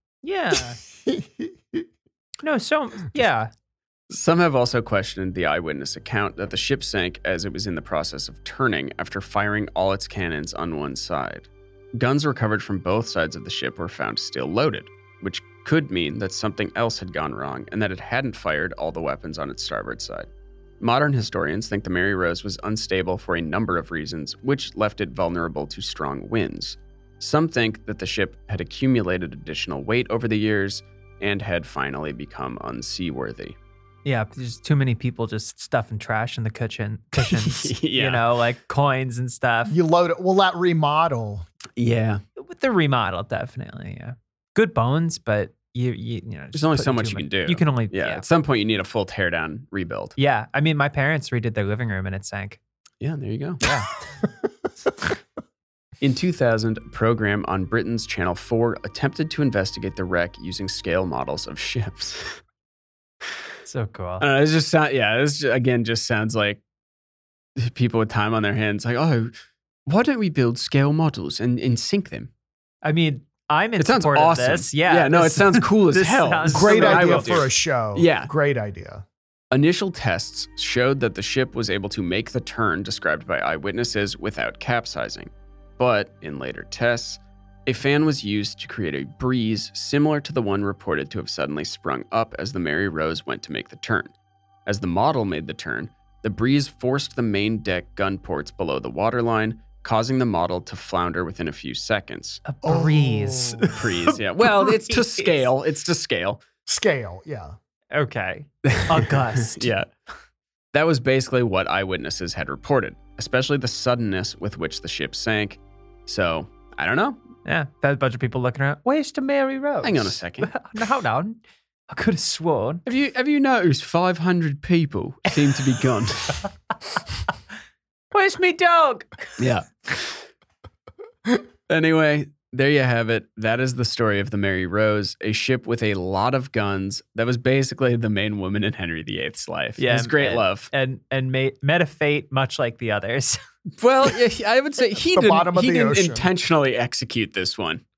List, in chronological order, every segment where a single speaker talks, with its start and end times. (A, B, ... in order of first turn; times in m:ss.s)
0:00.2-0:00.8 A
0:01.0-0:01.8 B
0:02.4-0:03.5 A
0:04.1-0:20.3 C
0:20.8-0:33.6 C
0:34.0-0:39.8 A
0:37.2-0:38.2 C
0:39.7-0:41.5 B
0:41.8-0:42.2 C
0:42.4-0:48.2 A
0:46.5-0:50.2 C
0:50.2-0:52.6 A
0:53.0-0:53.7 C
0:53.6-0:53.9 A
0:56.0-1:02.4 C
1:03.7-1:04.2 A
1:04.2-1:06.6 C
1:07.6-1:09.3 C
1:09.9-1:12.3 C
1:12.8-1:17.4 A
1:13.8-1:18.3 C
1:16.5-1:19.0 B
1:19.5-1:34.1 C
1:34.7-1:42.4 C
1:42.5-1:45.5 A
1:42.6-1:43.8 B
1:43.7-1:46.4 C
1:46.7-1:47.6 B
1:47.9-1:49.7 A
1:48.6-1:49.9 C
1:50.7-1:57.2 C
1:57.4-2:02.8 A
1:59.8-2:00.5 C
2:02.8-2:06.4 C
2:08.1-2:09.4 A
2:09.4-2:10.3 C
2:11.7-2:20.7 C
2:19.8-2:23.4 A
2:23.8-2:27.8 C
2:25.1-2:26.3 B